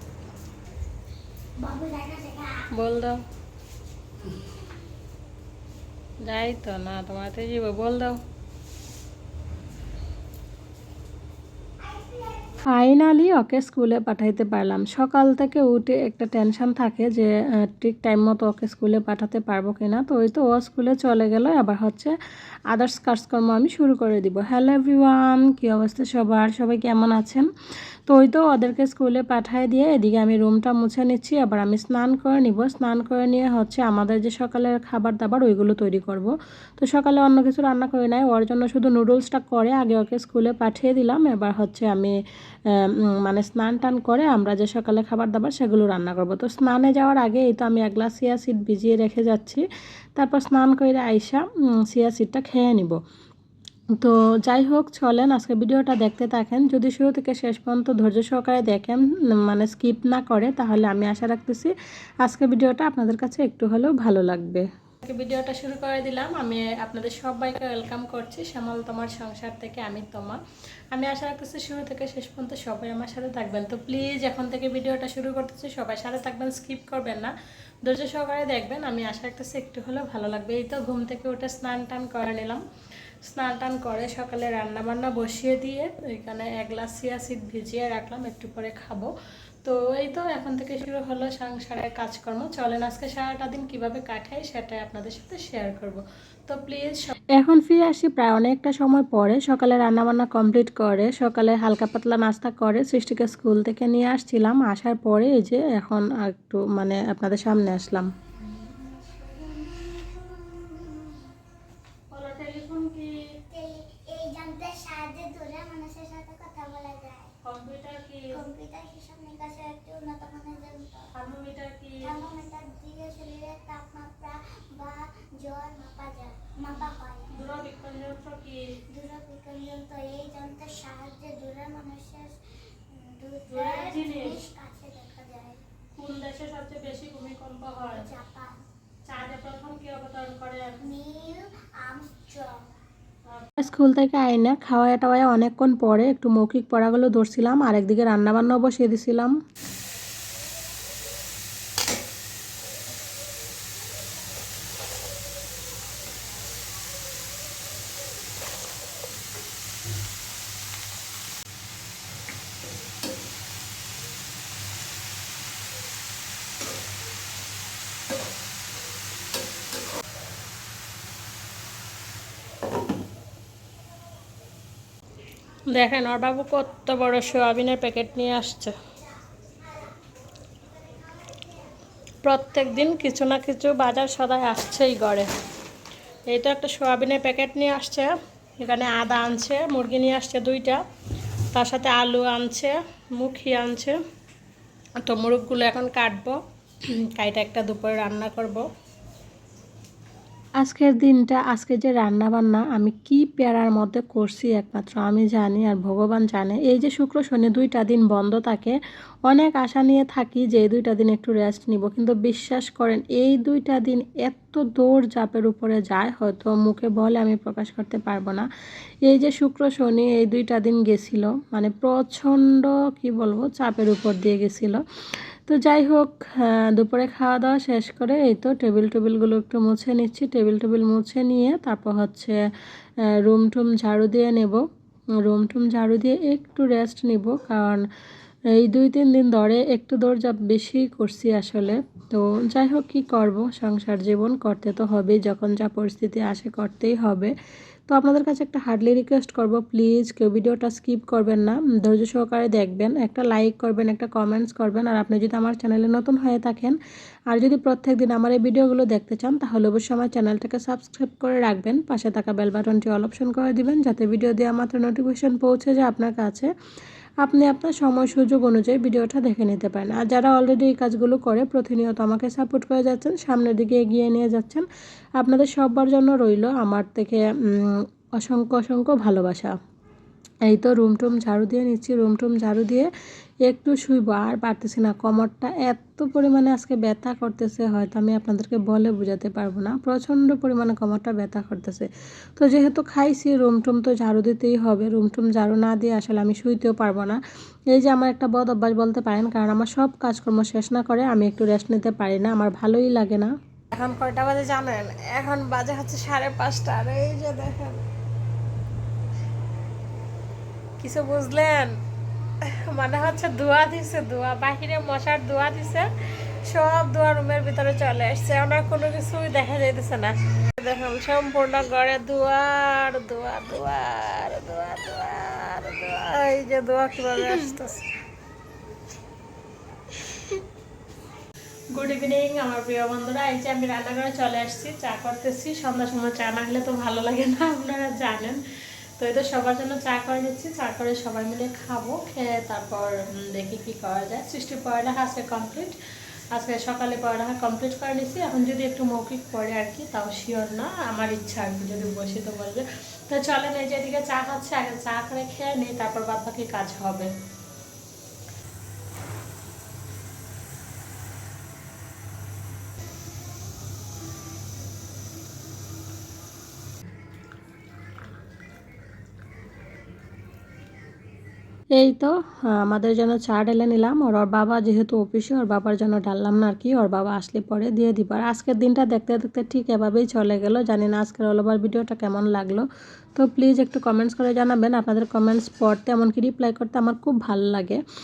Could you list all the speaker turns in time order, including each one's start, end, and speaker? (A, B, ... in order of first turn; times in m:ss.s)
0:01.6-0:02.7 A
0:02.7-0:03.2 B
0:06.2-0:08.2 B
0:11.8-0:12.6 A
0:12.6-0:22.1 B
0:22.7-0:27.5 B
0:28.1-0:49.6 B
0:50.2-0:53.0 B
0:54.0-1:01.7 B
1:02.2-1:10.4 B
1:10.9-1:17.3 B
1:17.8-1:22.6 B
1:23.2-1:29.1 B
1:29.6-1:48.1 B
1:48.6-1:51.3 A
1:52.1-1:53.1 B
1:53.5-1:57.3 A
1:57.4-1:58.3 B
1:58.3-2:01.1 A
2:01.1-2:02.1 B
2:02.0-2:07.4 A
2:07.3-2:08.6 B
2:08.9-2:12.4 A
2:12.9-2:15.6 A
2:13.5-2:14.4 B
2:16.0-2:18.1 B
2:17.9-2:18.5 A
2:19.1-2:20.8 B
2:20.8-2:22.5 A
2:23.4-2:29.4 B
2:55.7-2:58.8 B
2:59.0-3:00.0 A
3:00.6-3:01.6 A
3:02.2-3:05.3 B
3:02.6-3:03.0 A
3:06.3-3:10.8 B
3:11.5-3:14.0 B
3:15.0-3:16.4 B
3:16.9-3:18.6 B
3:20.6-3:38.5 B
3:39.0-3:44.8 B
3:45.5-3:52.4 B
3:53.2-3:54.6 B
3:55.2-3:57.8 B
3:58.5-4:07.3 B
4:07.9-4:16.8 B
4:17.3-4:26.5 B
4:27.2-4:34.6 B
4:35.2-4:39.5 B
4:40.4-4:42.9 B
4:43.4-4:57.2 B
4:57.7-5:07.8 B
5:10.8-5:11.7 B
5:12.4-5:15.9 B
5:16.4-5:27.9 B
5:31.7-5:38.4 B
5:39.0-5:45.7 B
5:46.3-5:57.1 B
6:11.7-6:27.8 B